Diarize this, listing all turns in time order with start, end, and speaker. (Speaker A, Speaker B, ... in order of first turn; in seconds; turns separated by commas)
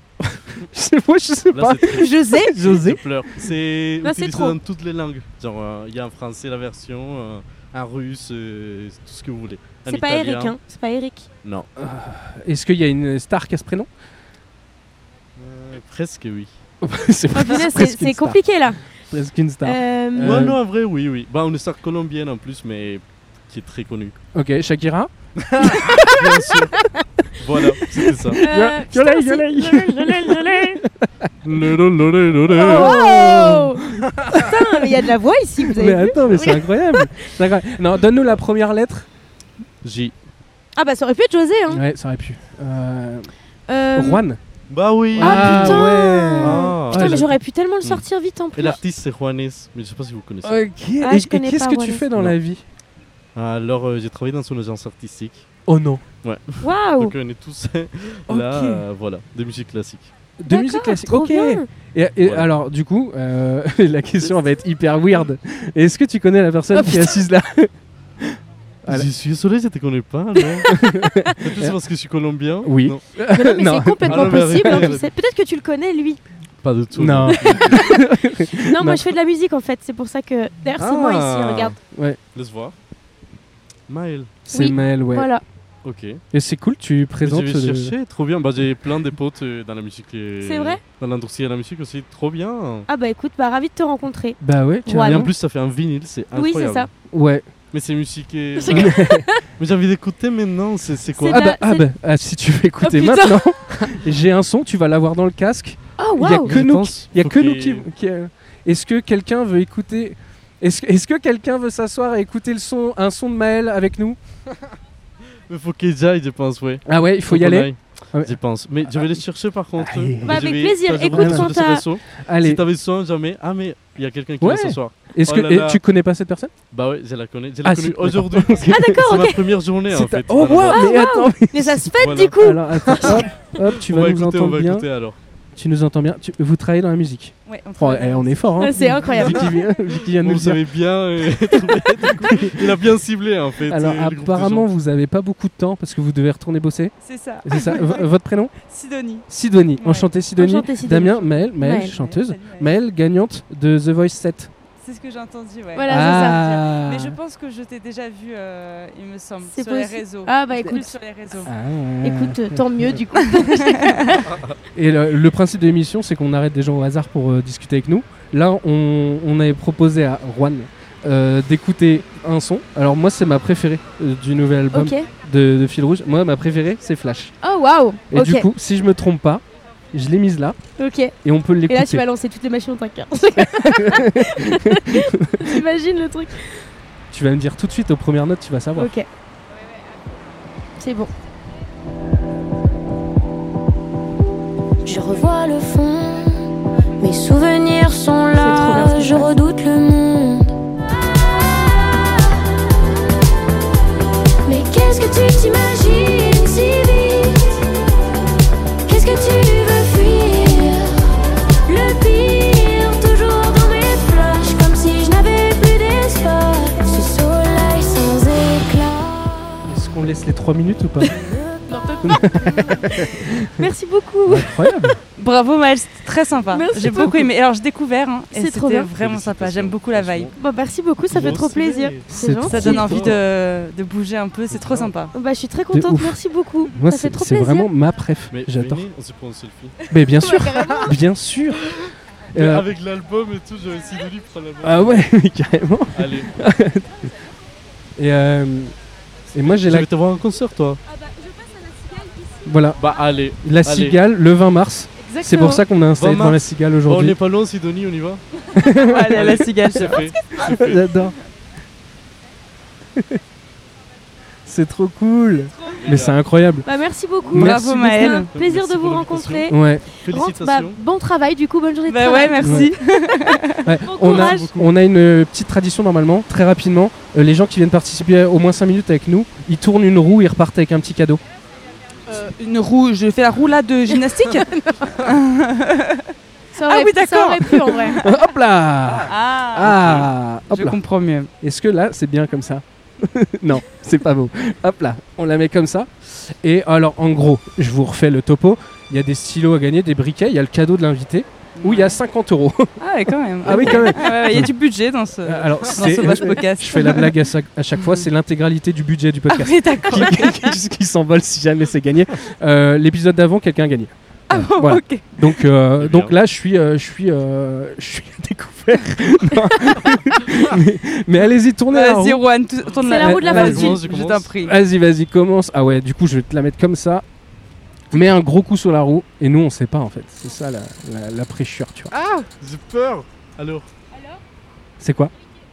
Speaker A: 0.2-3.0, Speaker B: 1.5-10.5, Speaker C: 1.9-2.5, Speaker C: 4.0-4.5, Speaker C: 9.8-11.3, Speaker A: 11.8-13.9, Speaker B: 15.4-16.5, Speaker A: 16.8-18.4, Speaker C: 17.3-18.8, Speaker A: 19.1-20.6, Speaker C: 19.6-20.5, Speaker B: 20.2-24.1, Speaker A: 24.3-26.6, Speaker B: 26.0-26.8, Speaker B: 27.4-28.4, Speaker A: 27.9-31.3, Speaker C: 28.4-30.8, Speaker B: 31.4-33.0, Speaker A: 32.5-39.1, Speaker C: 32.5-37.3, Speaker B: 39.8-40.1, Speaker C: 40.8-41.8, Speaker A: 41.7-43.3, Speaker C: 43.7-44.2, Speaker A: 43.9-44.4, Speaker B: 44.7-47.3, Speaker A: 45.1-47.3, Speaker C: 45.2-48.8, Speaker B: 48.5-50.6, Speaker A: 50.4-52.6, Speaker C: 51.0-52.0, Speaker B: 53.4-55.5, Speaker A: 55.7-56.0, Speaker B: 56.2-60.1, Speaker C: 56.6-57.1, Speaker A: 58.3-58.8, Speaker A: 60.4-69.1, Speaker C: 60.5-61.7, Speaker B: 62.2-62.5, Speaker C: 66.7-67.1, Speaker B: 68.9-70.8, Speaker A: 70.7-71.8, Speaker B: 71.4-73.0, Speaker A: 72.6-74.9, Speaker C: 73.3-76.2, Speaker B: 74.1-75.1, Speaker B: 76.6-77.9, Speaker A: 76.9-79.1, Speaker C: 77.3-81.8, Speaker B: 80.8-81.8, Speaker A: 81.9-82.2, Speaker B: 82.3-82.7, Speaker B: 83.9-84.4, Speaker A: 84.5-85.3, Speaker C: 84.5-85.4, Speaker B: 85.8-86.2, Speaker A: 86.3-87.9, Speaker B: 87.2-92.9, Speaker C: 90.4-90.8, Speaker C: 92.9-95.2, Speaker A: 94.4-95.3, Speaker B: 95.0-96.9, Speaker C: 96.3-96.9, Speaker A: 97.1-97.5, Speaker B: 97.7-99.0, Speaker C: 98.6-99.4, Speaker A: 98.7-99.3, Speaker B: 99.6-101.5, Speaker C: 101.2-101.9, Speaker A: 101.3-114.2, Speaker C: 102.8-103.9, Speaker C: 106.0-106.5, Speaker B: 106.4-107.8, Speaker B: 115.5-125.8, Speaker A: 116.8-118.4, Speaker A: 118.9-119.2, Speaker A: 119.8-120.5, Speaker C: 120.2-121.8, Speaker A: 121.1-121.5, Speaker A: 122.2-122.6, Speaker A: 124.4-126.5, Speaker B: 126.7-130.8, Speaker A: 127.6-129.0, Speaker C: 128.6-129.4, Speaker A: 129.9-134.8, Speaker C: 130.7-133.2, Speaker B: 132.0-132.4, Speaker B: 133.0-135.2, Speaker A: 135.5-140.6, Speaker D: 137.4-138.6, Speaker C: 138.6-139.4, Speaker B: 140.0-144.7, Speaker A: 142.2-142.6, Speaker A: 143.7-146.9, Speaker D: 147.0-149.2, Speaker A: 147.4-148.5, Speaker A: 149.3-154.5, Speaker D: 149.8-150.1, Speaker C: 150.4-151.9, Speaker D: 151.6-152.7, Speaker D: 154.8-161.5, Speaker C: 155.7-156.6, Speaker A: 155.9-157.2, Speaker C: 159.4-160.9, Speaker A: 161.4-163.0, Speaker C: 162.0-164.3, Speaker D: 163.3-164.0, Speaker A: 164.7-177.3, Speaker C: 174.7-175.1, Speaker C: 177.4-178.5, Speaker A: 178.1-180.6, Speaker C: 180.8-181.1, Speaker A: 181.2-182.0, Speaker C: 181.7-186.6, Speaker A: 183.4-185.6, Speaker A: 187.1-188.9, Speaker C: 188.8-189.1, Speaker C: 190.8-191.1, Speaker C: 194.9-196.3, Speaker C: 197.0-200.4, Speaker D: 198.4-199.1, Speaker C: 204.6-205.0, Speaker C: 205.9-206.9, Speaker E: 213.4-213.9, Speaker C: 214.1-217.7, Speaker E: 214.5-219.1, Speaker A: 219.6-221.3, Speaker C: 221.0-224.7, Speaker A: 222.0-223.5, Speaker A: 224.2-225.0, Speaker D: 225.2-230.3, Speaker C: 226.5-227.2, Speaker C: 228.3-228.9, Speaker B: 228.9-230.3, Speaker C: 230.3-233.1, Speaker B: 231.1-232.1, Speaker A: 232.1-233.1, Speaker D: 232.5-235.1, Speaker B: 232.6-233.2, Speaker B: 234.5-234.9, Speaker C: 235.1-237.7, Speaker A: 235.7-236.2, Speaker A: 236.7-238.8, Speaker B: 238.3-239.8, Speaker A: 239.9-241.7, Speaker C: 240.2-240.9, Speaker A: 242.3-242.7, Speaker B: 242.3-245.1, Speaker A: 244.6-247.0, Speaker B: 245.9-246.3, Speaker A: 248.0-248.7, Speaker A: 249.3-249.9, Speaker B: 249.5-250.8, Speaker C: 250.9-252.3, Speaker A: 252.4-252.8, Speaker B: 252.8-254.0, Speaker A: 253.4-257.1, Speaker C: 255.0-255.6, Speaker B: 255.9-258.2, Speaker A: 258.6-259.3, Speaker D: 258.8-260.1, Speaker B: 259.1-260.9, Speaker A: 260.4-261.1, Speaker A: 264.4-266.6, Speaker B: 265.8-266.2, Speaker C: 266.6-272.7, Speaker D: 267.3-268.3, Speaker A: 267.3-267.7, Speaker B: 268.3-270.8, Speaker A: 269.5-269.9, Speaker D: 271.9-273.7, Speaker A: 272.4-272.7, Speaker A: 273.6-281.2, Speaker C: 273.8-274.5, Speaker B: 274.1-274.7, Speaker D: 282.1-286.1, Speaker C: 283.9-284.9, Speaker C: 286.5-288.0, Speaker D: 286.7-288.1, Speaker A: 288.0-290.8, Speaker D: 289.0-291.3, Speaker B: 289.8-290.0, Speaker A: 291.4-304.5, Speaker D: 301.6-302.0, Speaker D: 302.8-307.2, Speaker A: 305.2-322.2, Speaker D: 307.8-308.1, Speaker D: 309.3-310.5, Speaker D: 314.3-315.0, Speaker B: 315.8-316.1, Speaker D: 321.7-324.5, Speaker C: 322.8-323.8, Speaker A: 323.0-323.8, Speaker B: 323.0-324.3, Speaker A: 324.4-327.0, Speaker A: 327.9-331.9, Speaker B: 332.4-333.7, Speaker A: 334.8-335.1